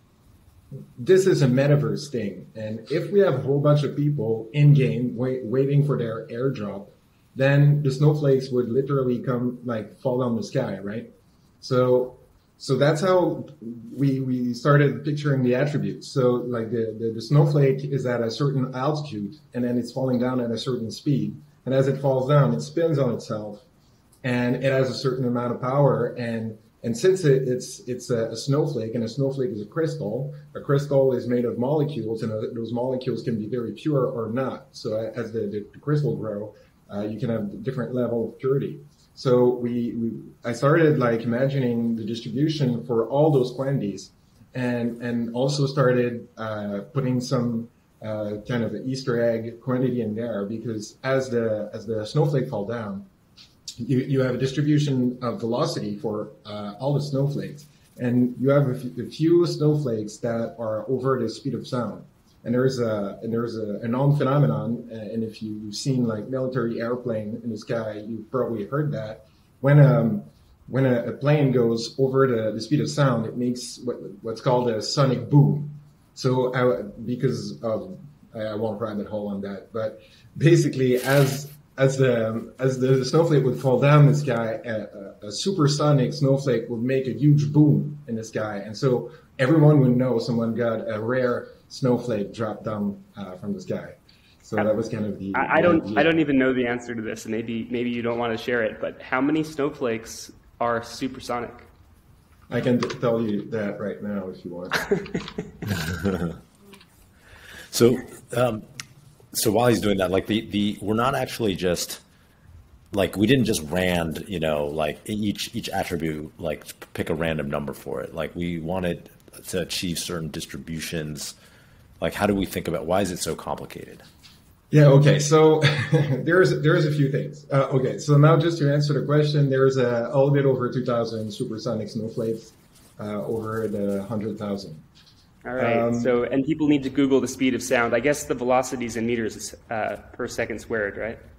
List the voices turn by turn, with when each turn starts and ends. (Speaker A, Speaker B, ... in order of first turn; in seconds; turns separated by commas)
Speaker A: 0.9-11.1, Speaker A: 11.6-23.6, Speaker A: 24.2-53.1, Speaker A: 53.8-96.2, Speaker B: 95.3-101.7, Speaker A: 102.5-104.9, Speaker C: 105.7-106.3, Speaker C: 107.7-108.7, Speaker C: 109.3-112.0, Speaker C: 112.9-121.3, Speaker C: 122.0-124.0, Speaker A: 124.7-134.8, Speaker B: 135.4-141.2, Speaker A: 135.6-136.1